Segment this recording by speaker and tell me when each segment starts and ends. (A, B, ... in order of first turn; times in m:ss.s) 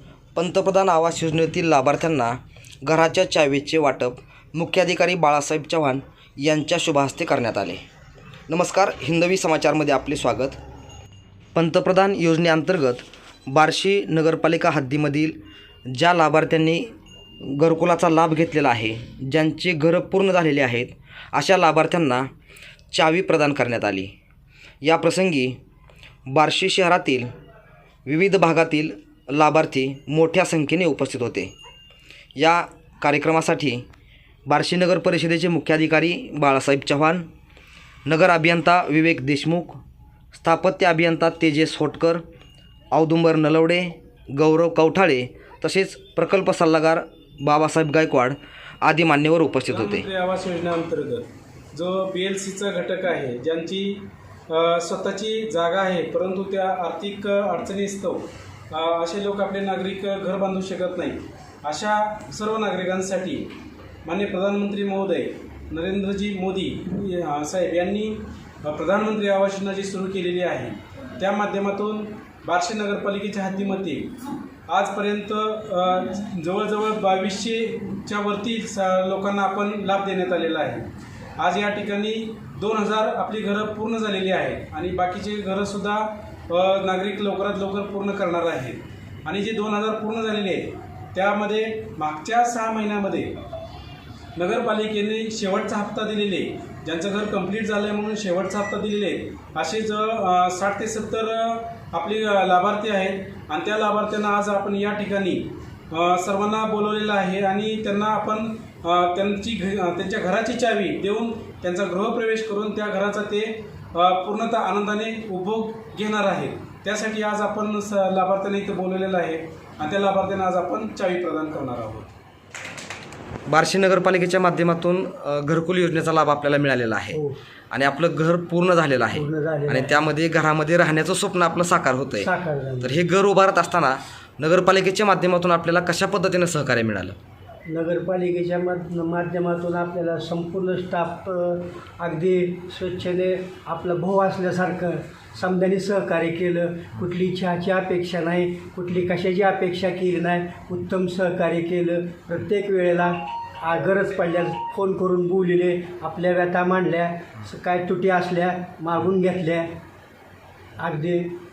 0:00.3-0:07.8 A
0:08.5-0:10.6 A
0:11.5-0:15.4 A
0:15.9-0:22.3 A
0:22.9-0:24.1 A
0:24.8-0:25.6 A
0:26.3-0:27.3 A
0:28.0-0:31.5 A
0:32.4-0:33.8 A
0:34.5-0:37.3 A
0:38.0-0:39.8 A
0:40.3-0:42.2 A
0:42.9-0:50.0 A
0:49.7-1:03.5 B
1:04.0-1:33.4 B
1:34.4-2:02.1 B
2:03.5-2:07.2 A
2:07.1-2:07.4 C
2:07.7-2:12.3 A
2:09.1-2:10.0 C
2:12.2-2:13.0 C
2:12.8-2:17.2 A
2:17.7-2:39.7 C
2:40.8-2:41.4 C